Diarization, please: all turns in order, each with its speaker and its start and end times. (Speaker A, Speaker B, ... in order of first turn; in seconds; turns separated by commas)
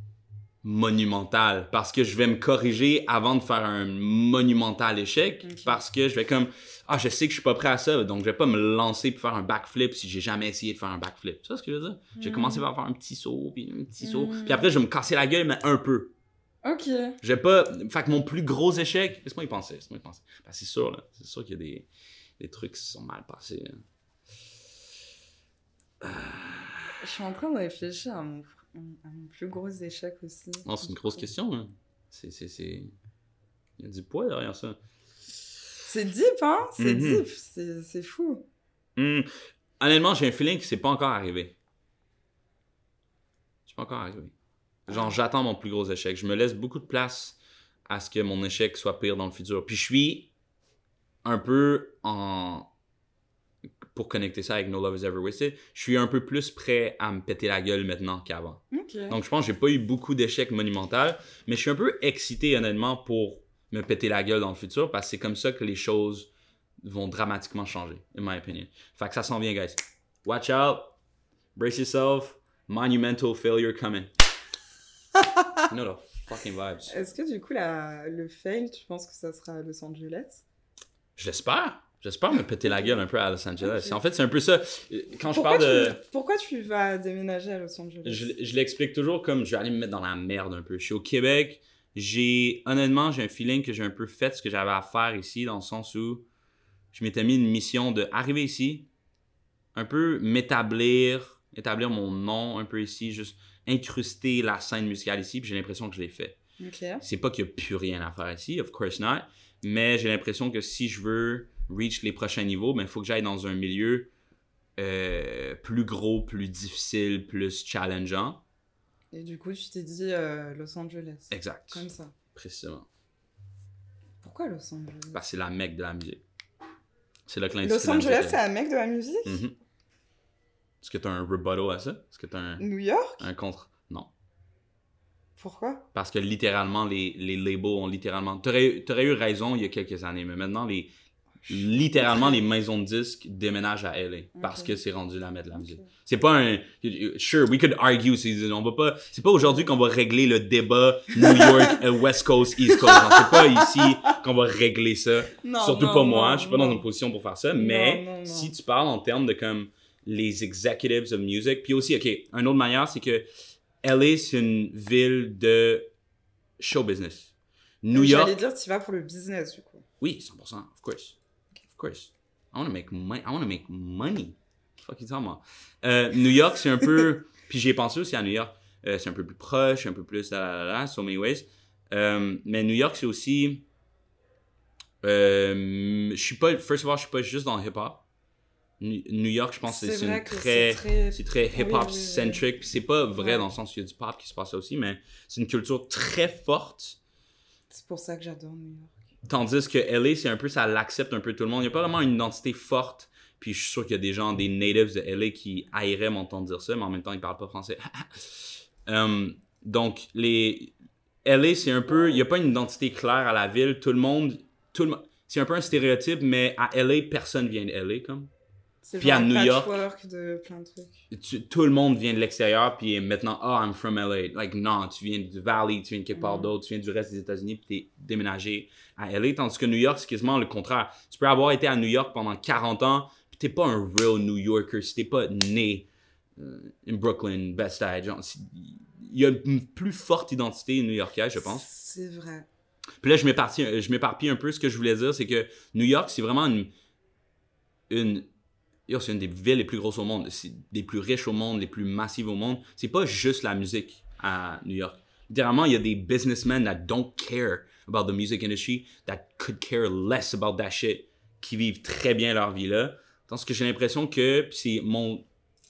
Speaker A: 0.6-16.1, Speaker B: 5.4-5.8, Speaker B: 12.2-12.7, Speaker B: 14.0-14.7, Speaker B: 16.6-17.2, Speaker A: 17.2-21.9, Speaker A: 22.4-23.8, Speaker A: 26.0-27.0, Speaker B: 27.0-31.0, Speaker A: 30.6-32.9, Speaker A: 33.8-34.8, Speaker B: 35.9-38.5, Speaker A: 36.8-37.3, Speaker A: 39.0-41.5, Speaker A: 43.7-44.3, Speaker A: 44.9-50.3, Speaker B: 44.9-45.1, Speaker A: 51.2-52.7, Speaker A: 53.9-66.3, Speaker B: 58.7-59.2, Speaker A: 66.8-70.9, Speaker A: 71.6-74.1, Speaker A: 75.7-77.0, Speaker B: 76.9-80.4, Speaker A: 81.2-86.0, Speaker B: 82.6-83.0, Speaker B: 83.6-84.0, Speaker B: 85.3-88.3, Speaker A: 88.0-96.3, Speaker A: 96.9-98.9, Speaker A: 99.8-106.4, Speaker B: 106.6-107.0, Speaker A: 107.0-114.1, Speaker A: 114.8-118.4, Speaker B: 119.1-122.1, Speaker A: 121.3-122.9, Speaker B: 124.2-125.2, Speaker A: 125.1-126.2, Speaker A: 127.3-128.4, Speaker B: 127.6-129.4, Speaker A: 129.2-129.5, Speaker A: 130.8-132.6, Speaker B: 132.6-133.2, Speaker A: 133.2-134.1, Speaker B: 135.4-135.9, Speaker A: 135.9-140.9, Speaker B: 141.5-142.4, Speaker A: 141.5-163.3, Speaker B: 144.4-144.8, Speaker B: 145.5-145.9, Speaker B: 151.2-151.8, Speaker B: 152.7-154.1, Speaker B: 155.4-156.8, Speaker B: 157.6-158.5, Speaker A: 163.8-165.9, Speaker A: 166.6-168.4, Speaker B: 167.9-169.8, Speaker A: 170.0-171.2, Speaker A: 171.7-183.7, Speaker A: 185.0-188.0, Speaker A: 188.8-197.0, Speaker B: 189.6-192.4, Speaker B: 193.2-193.5, Speaker B: 197.7-199.0, Speaker A: 199.2-210.7, Speaker A: 211.2-218.3, Speaker B: 218.8-221.1, Speaker A: 219.0-219.8, Speaker A: 221.1-241.6, Speaker B: 226.1-226.5, Speaker B: 241.4-242.5, Speaker A: 243.0-246.7, Speaker A: 247.9-248.3, Speaker A: 248.9-265.3